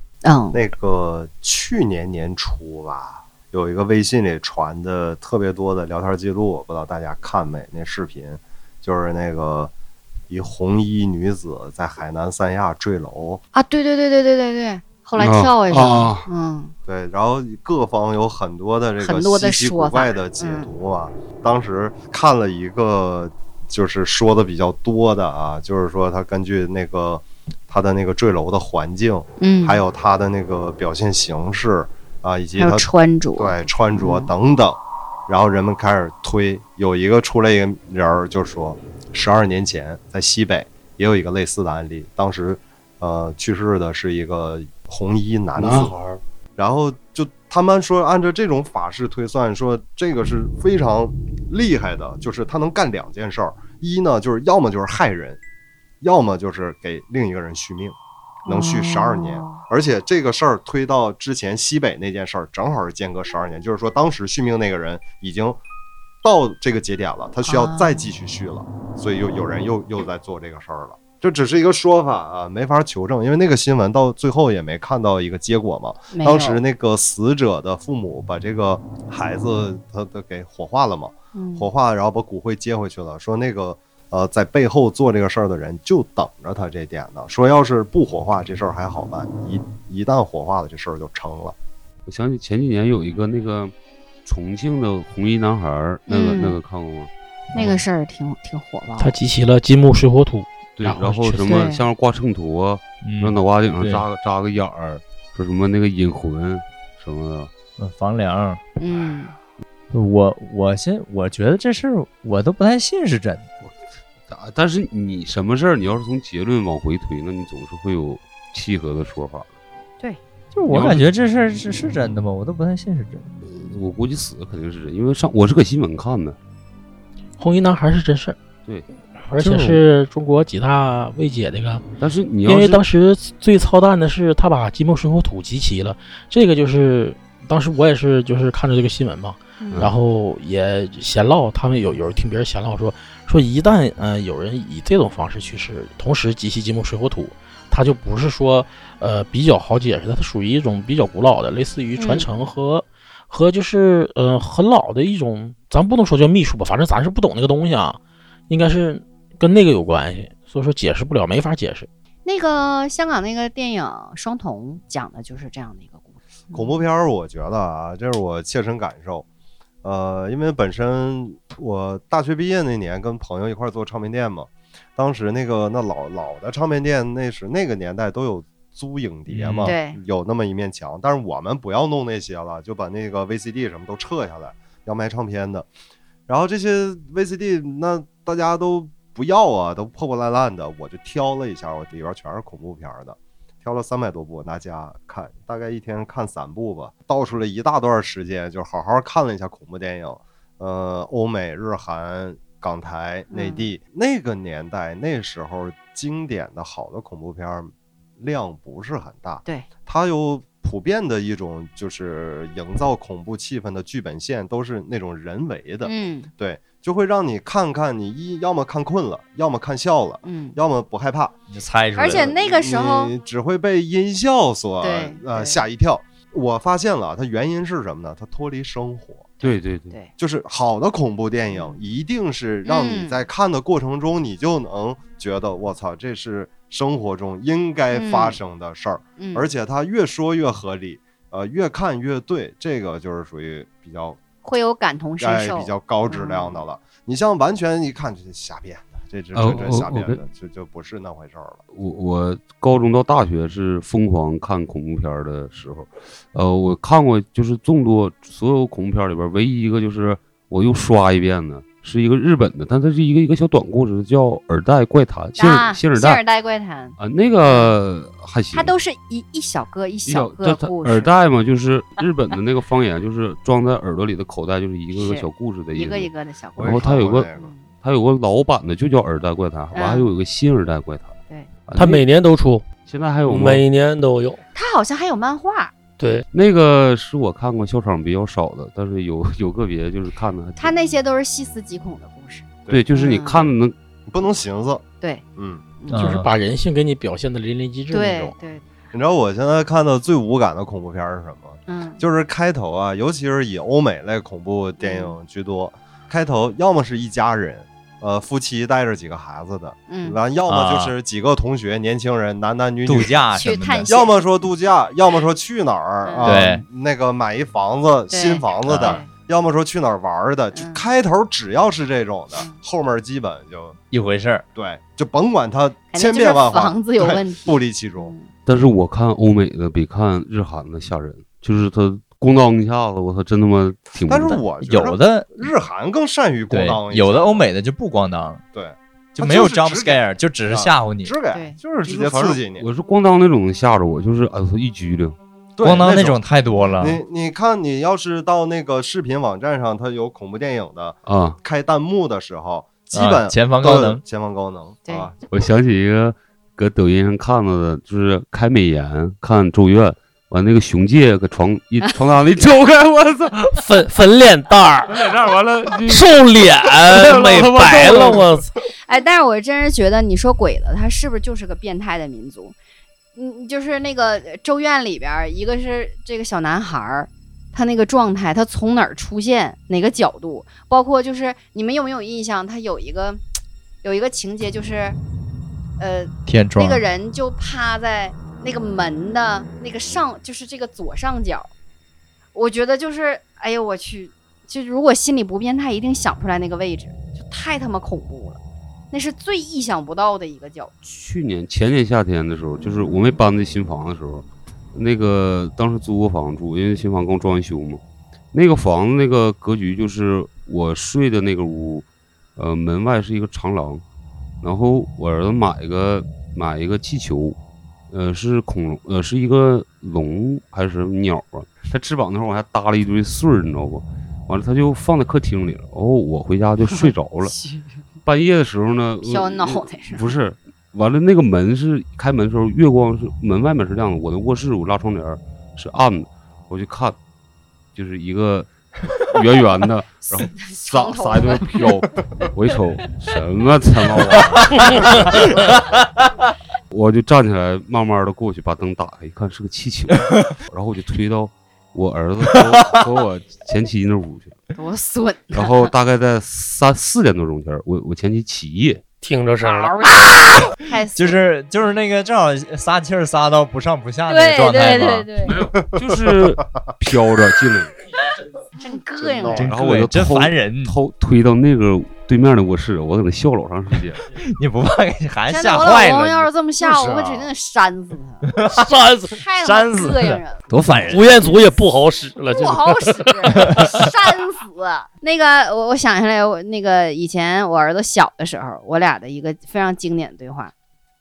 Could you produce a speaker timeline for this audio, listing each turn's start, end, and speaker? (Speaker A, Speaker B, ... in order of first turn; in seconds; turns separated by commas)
Speaker A: 0.2-0.6, Speaker B: 0.5-9.7, Speaker B: 10.3-13.4, Speaker A: 13.5-16.7, Speaker C: 15.2-16.3, Speaker B: 16.9-46.0, Speaker A: 19.0-20.7, Speaker A: 29.4-29.8, Speaker A: 32.6-34.3, Speaker C: 45.6-46.2, Speaker B: 46.6-55.4, Speaker B: 56.0-58.0, Speaker A: 58.5-59.6, Speaker B: 58.5-65.6, Speaker B: 66.2-91.5, Speaker A: 67.5-68.0, Speaker A: 76.1-76.6, Speaker A: 81.3-81.7, Speaker C: 92.1-93.7, Speaker C: 94.2-97.1, Speaker A: 96.1-96.6, Speaker D: 97.5-97.8, Speaker A: 97.5-99.2, Speaker E: 99.0-101.7, Speaker C: 100.8-107.5, Speaker A: 101.5-101.8, Speaker D: 103.0-104.1, Speaker D: 107.8-108.6, Speaker A: 108.8-109.3, Speaker D: 109.9-113.5, Speaker C: 114.3-119.5, Speaker D: 120.5-123.3, Speaker C: 120.7-121.1, Speaker C: 123.4-126.4, Speaker E: 127.4-128.4, Speaker E: 129.3-131.8, Speaker D: 129.4-129.8, Speaker C: 132.0-132.8, Speaker E: 132.5-161.9, Speaker A: 139.6-139.9, Speaker C: 139.7-140.0, Speaker A: 152.0-152.3, Speaker A: 162.2-166.8, Speaker B: 166.5-169.3, Speaker B: 169.8-185.7, Speaker D: 179.3-179.7, Speaker A: 179.7-180.0, Speaker B: 186.3-221.3, Speaker A: 203.3-203.7, Speaker A: 215.8-216.3, Speaker A: 220.2-220.6, Speaker D: 221.5-222.3, Speaker A: 221.9-223.1, Speaker B: 222.0-229.3, Speaker A: 224.8-225.6, Speaker A: 229.4-230.1, Speaker C: 229.4-229.9, Speaker B: 230.2-244.2, Speaker A: 231.5-231.8, Speaker A: 232.7-233.2, Speaker A: 237.9-238.4, Speaker A: 239.2-239.5, Speaker A: 244.4-246.6, Speaker B: 245.2-251.6, Speaker C: 249.3-250.2, Speaker C: 251.7-266.2, Speaker A: 265.4-267.8, Speaker C: 267.0-268.7, Speaker A: 268.5-271.1, Speaker C: 270.1-277.3, Speaker A: 274.9-277.7, Speaker B: 276.6-277.5, Speaker C: 277.8-281.2, Speaker A: 279.7-280.1, Speaker C: 281.7-282.1, Speaker F: 281.8-282.7, Speaker C: 282.8-283.6, Speaker F: 283.2-284.4, Speaker A: 284.5-285.7, Speaker F: 286.0-286.2, Speaker C: 286.3-290.7, Speaker A: 290.6-293.5, Speaker C: 292.7-293.8, Speaker B: 294.1-294.8, Speaker B: 295.4-295.6, Speaker D: 295.9-296.3, Speaker E: 295.9-298.4, Speaker A: 297.9-298.7, Speaker B: 298.9-313.1, Speaker A: 301.7-302.0, Speaker A: 304.8-305.2, Speaker A: 309.9-310.2, Speaker D: 310.5-310.9, Speaker D: 312.9-314.0, Speaker A: 313.3-314.2, Speaker B: 313.9-323.8, Speaker A: 316.0-316.3, Speaker D: 316.2-316.6, Speaker A: 318.1-319.1, Speaker D: 318.7-319.0, Speaker A: 320.5-320.9, Speaker D: 323.9-324.4, Speaker B: 324.6-328.1, Speaker A: 325.9-328.3, Speaker C: 328.5-334.4, Speaker B: 334.1-337.4, Speaker D: 334.6-335.5, Speaker D: 336.5-338.4, Speaker B: 338.5-342.7, Speaker D: 339.1-341.1, Speaker A: 341.3-341.6, Speaker C: 341.9-345.2, Speaker B: 345.6-346.2, Speaker D: 345.6-347.0, Speaker B: 346.8-355.2, Speaker C: 351.1-351.4, Speaker D: 352.9-354.0, Speaker A: 354.9-355.1, Speaker C: 355.3-363.6, Speaker F: 363.6-364.9, Speaker C: 364.9-366.1, Speaker E: 365.9-368.2, Speaker F: 366.7-368.5, Speaker C: 366.8-368.2, Speaker A: 368.9-372.6, Speaker A: 373.2-383.2, Speaker A: 383.8-385.0, Speaker A: 385.8-391.5, Speaker D: 386.3-386.8, Speaker A: 392.4-398.4, Speaker A: 398.9-400.7, Speaker C: 400.8-407.8, Speaker C: 408.3-413.8, Speaker C: 414.4-417.4, Speaker C: 417.9-427.3, Speaker A: 426.7-427.8, Speaker C: 428.1-437.0, Speaker A: 429.0-430.1, Speaker C: 437.8-445.6, Speaker A: 440.0-441.6, Speaker C: 446.7-454.4, Speaker A: 454.6-455.6, Speaker C: 455.3-458.8, Speaker F: 459.0-460.3, Speaker A: 459.4-461.2, Speaker D: 461.0-465.1, Speaker A: 464.1-465.4, Speaker C: 465.2-467.8, Speaker B: 465.6-466.2, Speaker A: 468.6-469.5, Speaker B: 469.0-469.5, Speaker D: 469.4-470.8, Speaker C: 469.4-474.1, Speaker D: 474.3-476.3, Speaker A: 475.3-478.4, Speaker B: 476.6-477.3, Speaker D: 478.3-478.7, Speaker F: 478.7-479.1, Speaker A: 479.1-480.4, Speaker D: 479.4-481.2, Speaker F: 480.8-483.5, Speaker A: 482.3-490.5